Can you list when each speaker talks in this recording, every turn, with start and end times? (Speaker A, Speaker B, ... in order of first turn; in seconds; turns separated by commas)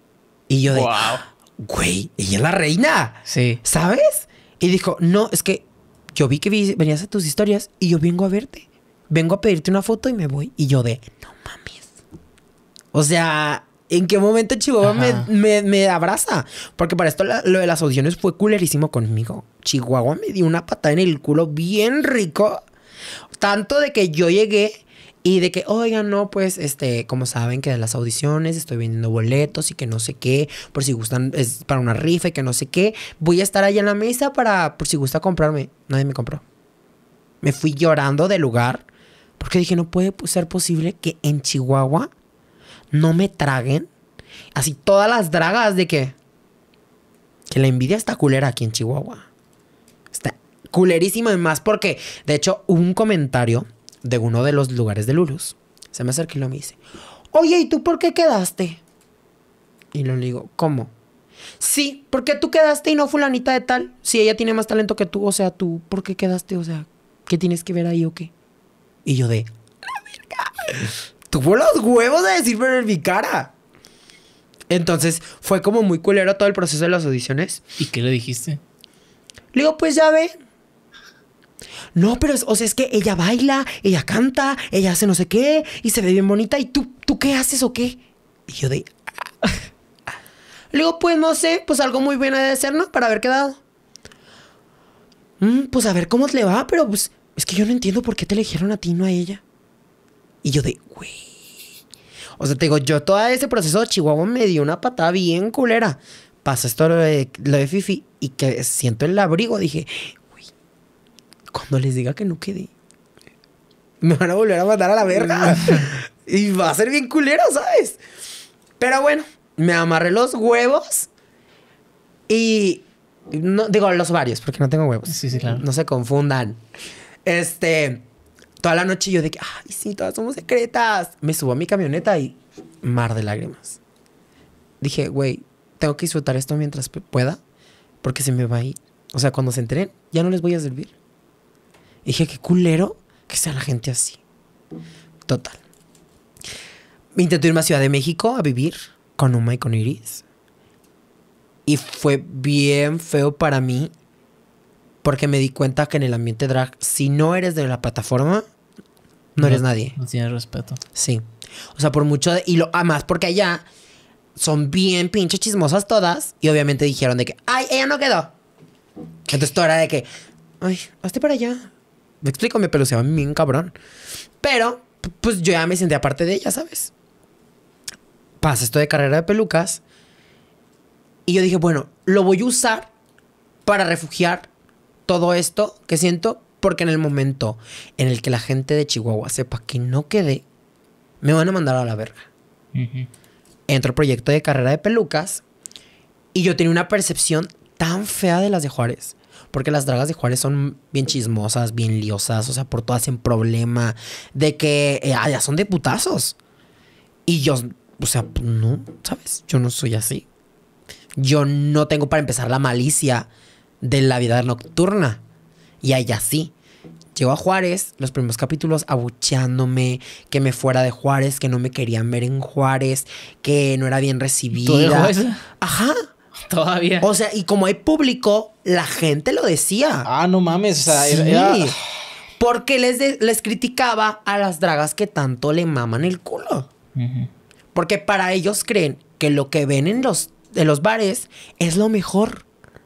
Speaker A: 0.5-5.6, Speaker B: 0.7-1.2, Speaker B: 3.2-3.6, Speaker A: 6.1-11.9, Speaker A: 12.9-22.6, Speaker B: 14.8-15.3, Speaker A: 23.4-36.4, Speaker A: 37.4-38.8, Speaker A: 39.4-42.1, Speaker A: 42.9-43.9, Speaker A: 44.5-46.1, Speaker A: 47.5-49.2, Speaker A: 50.1-56.8, Speaker A: 57.3-58.8, Speaker A: 59.9-60.9, Speaker A: 61.6-68.3, Speaker A: 69.0-73.5, Speaker A: 74.7-77.6, Speaker B: 77.8-78.6, Speaker A: 79.5-80.3, Speaker A: 81.9-88.9, Speaker A: 90.7-93.6, Speaker A: 95.4-99.4, Speaker A: 100.4-101.3, Speaker A: 102.4-110.3, Speaker A: 111.5-112.7, Speaker A: 114.0-118.0, Speaker A: 118.8-121.1, Speaker A: 122.3-126.6, Speaker B: 125.1-125.6, Speaker A: 127.2-128.0, Speaker A: 128.6-133.8, Speaker A: 134.8-137.4, Speaker A: 138.0-140.9, Speaker A: 142.0-144.2, Speaker A: 145.3-145.6, Speaker A: 147.1-150.2, Speaker A: 151.7-153.9, Speaker A: 155.0-158.4, Speaker A: 159.4-159.9, Speaker B: 159.4-160.8, Speaker A: 160.9-161.2, Speaker A: 161.8-163.6, Speaker A: 164.4-168.3, Speaker A: 169.3-170.1, Speaker A: 170.6-171.7, Speaker A: 172.2-173.7, Speaker A: 174.4-176.9, Speaker A: 178.4-179.8, Speaker A: 181.3-182.9, Speaker A: 183.7-184.5, Speaker A: 185.1-190.4, Speaker A: 191.2-192.3, Speaker B: 192.7-193.1, Speaker A: 193.7-195.4, Speaker A: 196.3-206.3, Speaker A: 207.3-210.3, Speaker A: 211.2-213.3, Speaker A: 213.8-215.2, Speaker A: 215.8-216.5, Speaker A: 217.1-226.0, Speaker B: 224.5-225.4, Speaker B: 226.5-227.1, Speaker A: 227.0-230.1, Speaker B: 230.0-231.9, Speaker A: 230.9-231.8, Speaker A: 232.4-236.7, Speaker B: 236.9-237.3, Speaker A: 237.7-242.4